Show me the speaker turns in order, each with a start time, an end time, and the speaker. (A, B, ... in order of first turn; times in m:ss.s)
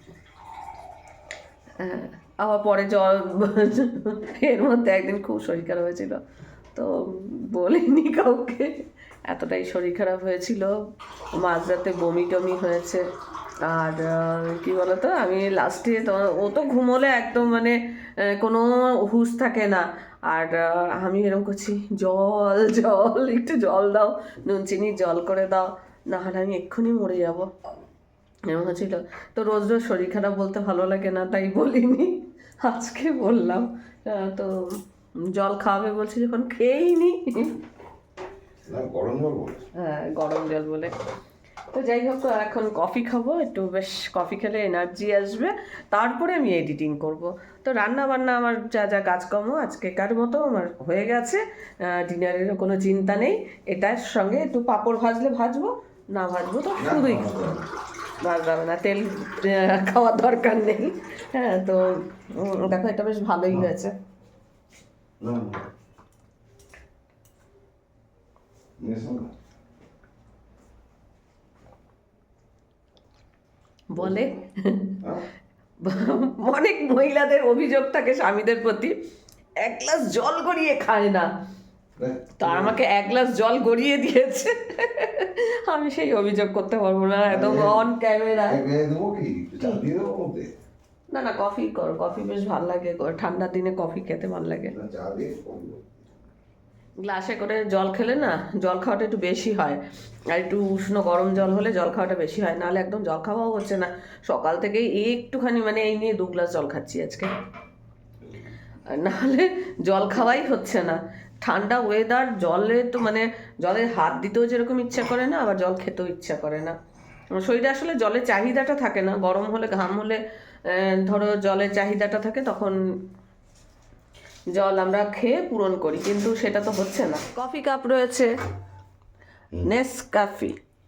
0:01.8-0:06.2 A
0:06.7-0:10.7 A
0:11.3-0:13.0 A
0:13.6-0:27.5 A
0:28.5-0:34.5 A
0:35.3-0:37.6 A
0:38.7-0:39.6 B
0:39.8-0:41.0 A
0:41.7-0:57.6 A
0:56.7-0:57.6 B
0:58.2-1:03.9 A
1:05.2-1:05.6 B
1:08.8-1:09.3 B
1:13.9-1:15.0 A
1:14.0-1:14.3 B
1:15.8-1:18.9 A
1:19.6-1:21.3 A
1:22.0-1:22.8 B
1:22.4-1:28.6 A
1:27.3-1:27.8 B
1:28.5-1:30.5 B
1:31.1-1:34.7 A
1:34.7-1:35.8 B
1:37.0-1:47.3 A
1:48.9-1:56.7 A
1:57.4-2:02.8 A
2:04.5-2:08.3 A
2:09.6-2:10.5 A